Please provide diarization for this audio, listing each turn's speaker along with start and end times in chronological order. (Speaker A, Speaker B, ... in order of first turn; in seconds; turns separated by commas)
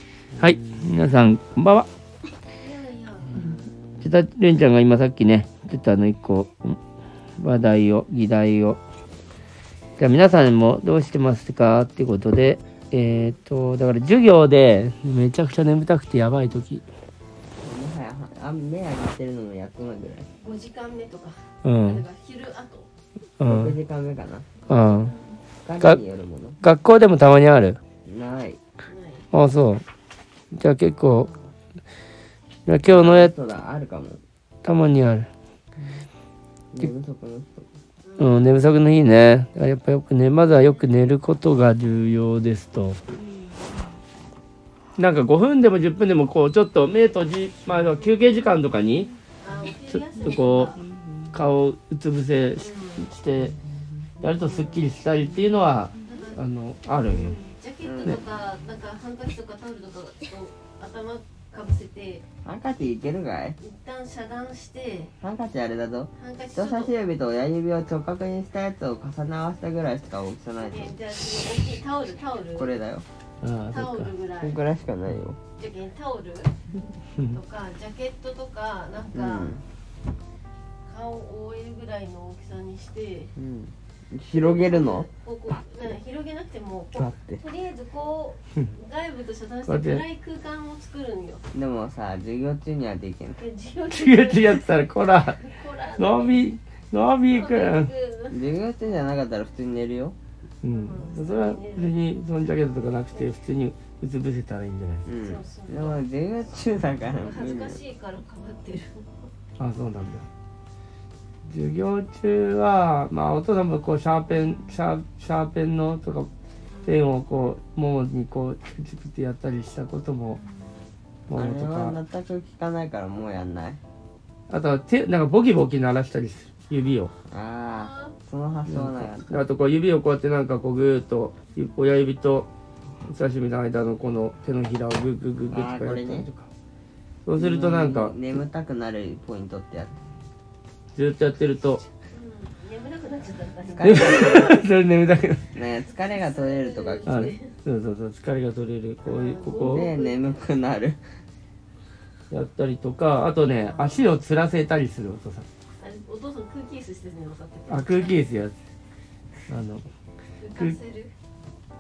Speaker A: 0.3-1.0, Speaker B: 0.4-1.9, Speaker C: 2.6-3.4, Speaker A: 3.2-4.1, Speaker B: 4.0-6.8, Speaker B: 7.4-8.8, Speaker B: 10.0-16.9, Speaker A: 17.6-20.3, Speaker C: 20.4-22.9, Speaker B: 21.6-22.1, Speaker B: 23.4-23.8, Speaker A: 23.4-24.4, Speaker B: 24.7-25.1, Speaker C: 24.7-25.2, Speaker A: 25.6-26.6, Speaker B: 26.6-27.8, Speaker A: 28.1-28.6, Speaker C: 28.9-29.2, Speaker B: 29.3-29.8, Speaker B: 30.5-31.3, Speaker B: 32.7-33.3, Speaker A: 32.8-34.2, Speaker B: 34.6-35.3, Speaker A: 36.7-37.7, Speaker C: 38.0-38.4, Speaker B: 38.2-43.0, Speaker C: 43.2-43.6, Speaker B: 45.0-49.1, Speaker C: 47.9-48.5, Speaker C: 49.4-50.8, Speaker B: 49.9-50.7, Speaker A: 51.0-51.2, Speaker B: 51.3-53.5, Speaker C: 52.6-53.1, Speaker B: 54.2-57.4, Speaker C: 54.3-54.9, Speaker C: 56.0-56.4, Speaker C: 57.1-62.2, Speaker A: 57.8-58.2, Speaker A: 62.5-63.6, Speaker C: 63.6-65.1, Speaker A: 65.2-71.0, Speaker C: 66.2-67.0, Speaker C: 70.6-72.7, Speaker A: 72.5-73.0, Speaker B: 73.4-74.1, Speaker C: 73.7-74.6, Speaker A: 74.4-75.4, Speaker C: 75.6-76.5, Speaker C: 77.3-79.6, Speaker A: 79.1-79.6, Speaker C: 80.9-83.3, Speaker A: 83.4-85.1, Speaker C: 84.3-91.5, Speaker A: 87.0-87.4, Speaker B: 89.7-90.0, Speaker A: 91.5-93.4, Speaker C: 93.3-96.4, Speaker B: 93.9-95.4, Speaker B: 96.0-97.9, Speaker C: 97.3-98.4, Speaker A: 98.3-100.2, Speaker B: 100.6-105.1, Speaker C: 100.7-102.0, Speaker A: 105.1-107.8, Speaker C: 105.2-106.0, Speaker C: 107.2-109.1, Speaker B: 109.6-110.3, Speaker B: 111.5-116.3, Speaker C: 116.7-117.1, Speaker B: 116.9-120.4, Speaker C: 120.3-120.8, Speaker B: 121.3-122.0, Speaker A: 121.3-123.8, Speaker B: 124.5-127.1, Speaker A: 127.3-129.3, Speaker C: 127.7-128.1, Speaker B: 128.7-132.5, Speaker B: 133.1-136.5, Speaker A: 135.5-136.3, Speaker B: 137.2-138.2, Speaker A: 137.4-140.0, Speaker B: 140.9-141.8, Speaker C: 142.1-144.5, Speaker A: 143.7-144.5, Speaker B: 143.8-145.5, Speaker A: 145.5-147.3, Speaker C: 146.1-147.5, Speaker B: 147.1-149.9, Speaker C: 149.0-150.5, Speaker A: 149.5-151.0, Speaker B: 152.3-155.5, Speaker C: 153.6-154.1, Speaker C: 155.8-158.2, Speaker B: 157.7-158.6, Speaker B: 159.5-159.9, Speaker C: 160.4-161.1, Speaker B: 160.5-160.8